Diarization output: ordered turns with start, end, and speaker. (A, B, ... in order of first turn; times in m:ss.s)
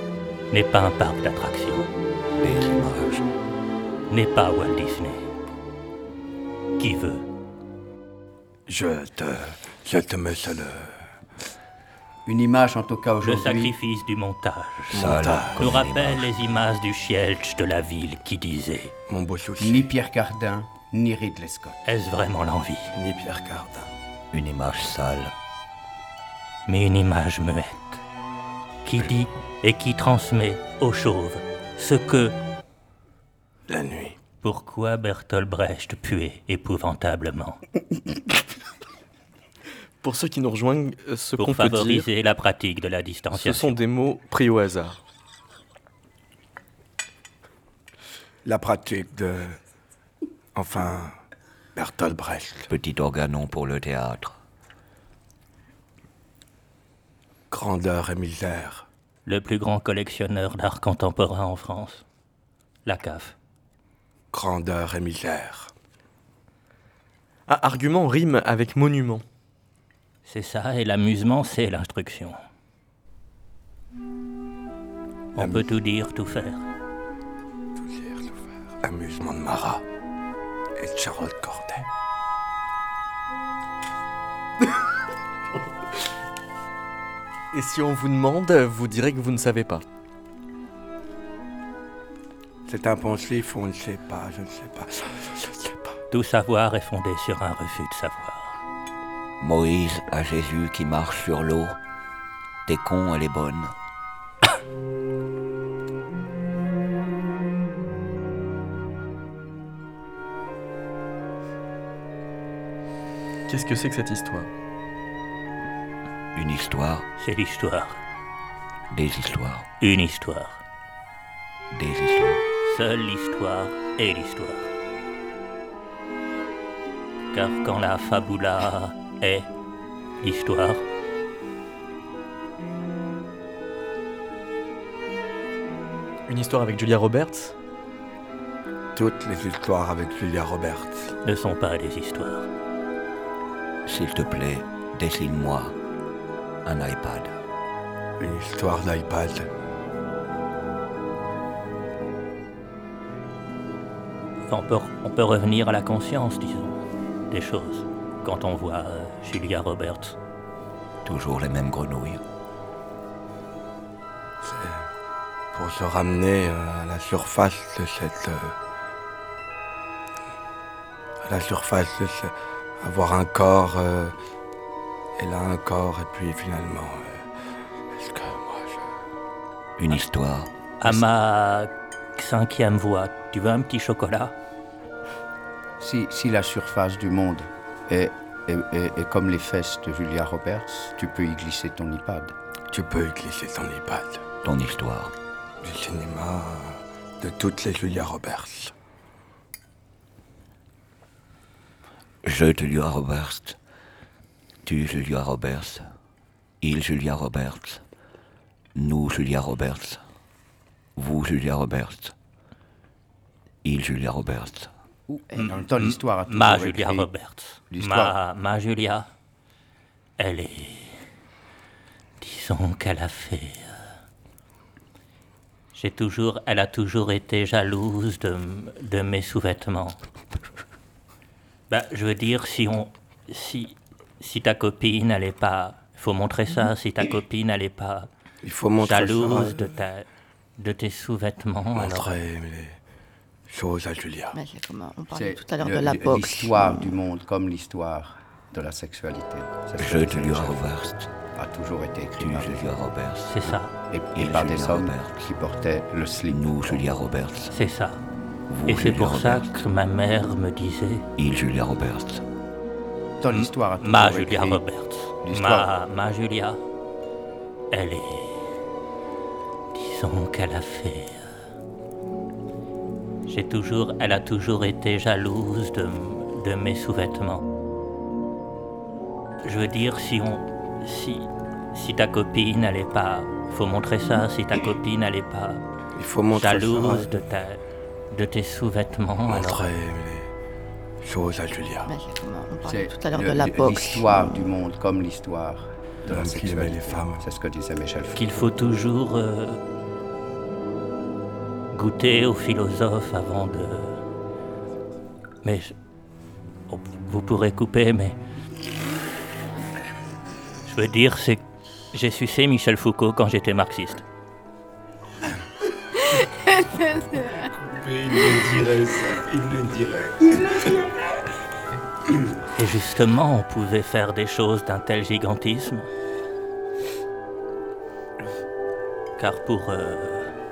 0:00.5-0:01.9 A
0:02.4-0:03.3 B
0:04.1-0:05.3 A
0:06.8-0:07.2 A
0:08.7-0:11.1 C
0:12.3-0:13.8 D
0:13.2-0:18.9 A
0:14.9-0:15.8 C
0:14.9-0:16.3 B
0:19.1-0:19.9 C
0:19.6-0:21.8 D
0:21.8-0:22.9 A
0:22.9-0:23.9 C
0:24.3-0:25.3 B
0:26.7-0:28.0 A
0:28.8-0:32.4 A
0:33.7-0:34.2 C
0:34.4-0:37.6 A
0:40.0-0:42.1 E
0:41.4-0:43.8 A
0:43.3-0:45.0 E
0:48.4-0:49.6 C
0:50.6-0:51.1 C
0:51.8-0:52.7 C
0:52.7-0:54.4 B
0:57.5-0:58.9 C
0:59.2-1:02.0 A
1:02.8-1:03.4 A
1:04.3-1:05.7 C
1:07.5-1:09.2 E
1:10.2-1:12.4 A
1:15.4-1:16.6 A
1:15.4-1:15.7 C
1:17.8-1:19.8 C
1:20.8-1:21.9 C
1:27.5-1:29.8 E
1:32.7-1:36.0 C
1:36.1-1:38.6 A
1:39.4-1:41.8 B
1:42.7-1:43.8 B
1:53.5-1:54.5 E
1:56.4-1:57.1 B
1:57.2-1:58.0 A
1:58.9-1:59.7 B
1:59.8-2:00.6 A
2:01.7-2:02.4 B
2:02.6-2:04.7 A
2:07.3-2:09.5 A
2:10.2-2:10.8 A
2:16.3-2:17.5 E
2:19.0-2:21.2 C
2:21.2-2:22.5 A
2:23.9-2:25.8 B
2:26.6-2:27.4 B
2:28.2-2:29.5 C
2:34.5-2:40.2 A
2:41.0-2:42.2 B
2:44.4-2:44.9 C
2:45.5-2:48.6 C
2:51.2-2:54.2 C
2:55.2-2:57.3 C
2:57.9-2:58.8 C
2:59.8-3:00.5 B
3:00.8-3:04.3 A
3:05.8-3:12.3 D
3:12.7-3:14.2 C
3:14.4-3:15.1 B
3:15.6-3:18.7 C
3:22.2-3:23.6 B
3:24.6-3:25.9 B
3:26.6-3:27.8 B
3:28.8-3:30.0 B
3:31.0-3:32.1 B
3:33.6-3:34.7 B
3:35.1-3:37.1 D
3:35.4-3:39.1 A
3:37.7-3:38.2 D
3:40.2-3:41.0 A
3:42.2-3:43.8 A
3:45.7-3:50.0 A
3:51.7-3:58.1 A
3:58.4-3:59.8 C
3:58.8-4:00.1 A
4:00.6-4:02.1 A
4:01.8-4:02.8 C
4:03.5-4:04.4 C
4:04.4-4:06.0 F
4:05.1-4:12.9 D
4:05.4-4:06.9 E
4:06.2-4:06.5 C
4:09.8-4:11.1 B
4:12.2-4:13.6 B
4:13.3-4:13.7 A
4:13.9-4:17.0 D
4:14.2-4:15.3 B
4:16.3-4:17.5 B
4:17.5-4:18.0 A
4:18.5-4:19.6 B
4:18.7-4:21.1 A
4:21.2-4:22.2 B
4:23.2-4:24.6 D
4:23.3-4:26.6 A
4:25.2-4:25.7 D
4:27.7-4:28.5 A
4:29.7-4:31.3 A
4:33.3-4:37.4 A
4:39.4-4:45.6 A
4:46.0-4:47.1 C
4:46.3-4:49.7 A
4:49.3-4:50.3 C
4:51.0-4:52.0 C
4:51.9-4:54.1 F
4:52.6-4:58.5 D
4:54.1-4:54.4 E
4:56.0-4:57.2 C
4:58.2-4:59.6 A
5:01.7-5:04.0 A
5:05.4-5:05.8 A
5:06.7-5:08.2 A
5:10.6-5:14.0 A
5:17.4-5:20.5 C
5:22.4-5:25.9 A
5:29.2-5:30.4 A